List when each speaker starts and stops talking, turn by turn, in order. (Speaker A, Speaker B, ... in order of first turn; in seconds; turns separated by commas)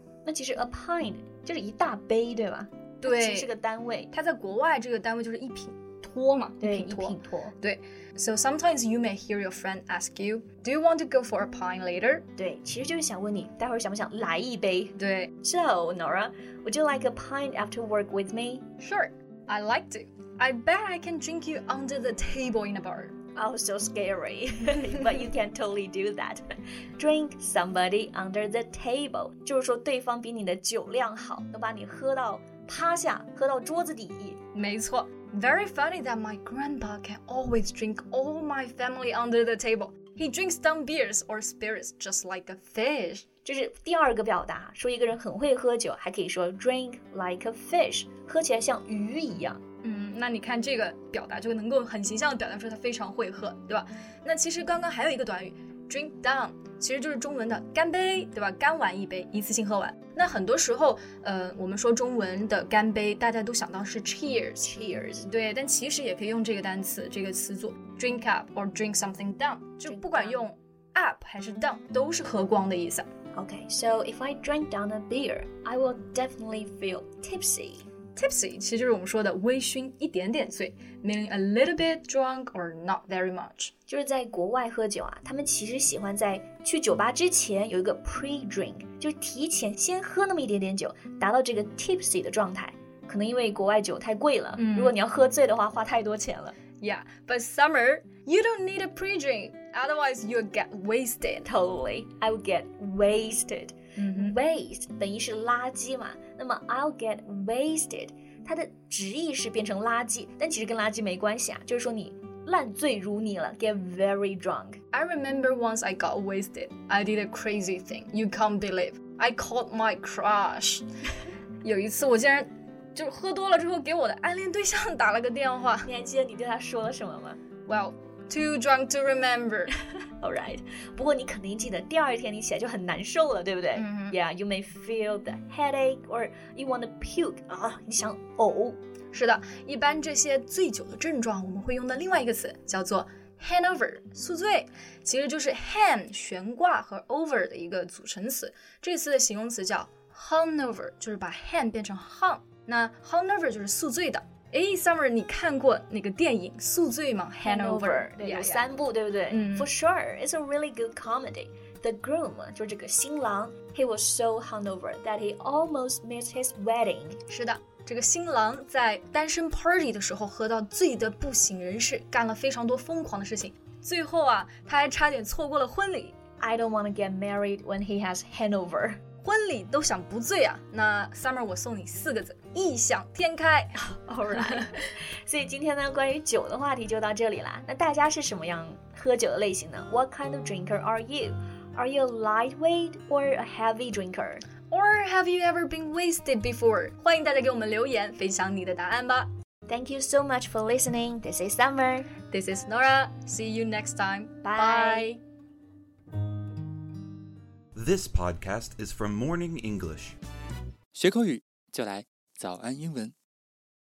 Speaker A: 0.2-4.1, Speaker B: 3.0-3.5, Speaker B: 4.1-12.2, Speaker A: 6.6-7.5, Speaker A: 12.3-18.7, Speaker B: 15.0-15.3, Speaker B: 18.8-23.1, Speaker A: 23.3-34.4, Speaker B: 34.5-43.2, Speaker A: 43.4-49.6, Speaker B: 49.8-73.1, Speaker A: 64.6-65.2, Speaker A: 69.8-70.5, Speaker A: 73.3-77.9, Speaker B: 78.2-83.7, Speaker A: 83.9-96.6, Speaker B: 94.6-94.9, Speaker B: 96.8-101.5, Speaker A: 101.4-114.8, Speaker B: 104.0-104.3, Speaker B: 114.9-120.8, Speaker B: 121.6-125.9, Speaker A: 125.8-127.4, Speaker B: 127.7-129.7, Speaker A: 130.2-138.8, Speaker B: 133.7-134.2, Speaker B: 139.1-158.7, Speaker A: 157.4-167.2, Speaker B: 159.3-159.7, Speaker B: 167.3-176.2, Speaker A: 176.4-179.0, Speaker B: 179.2-183.7, Speaker A: 183.8-194.4, Speaker B: 194.7-199.3, Speaker A: 199.7-202.1, Speaker B: 202.3-205.2, Speaker A: 204.4-205.1, Speaker C: 207.7-210.2, Speaker D: 211.1-213.1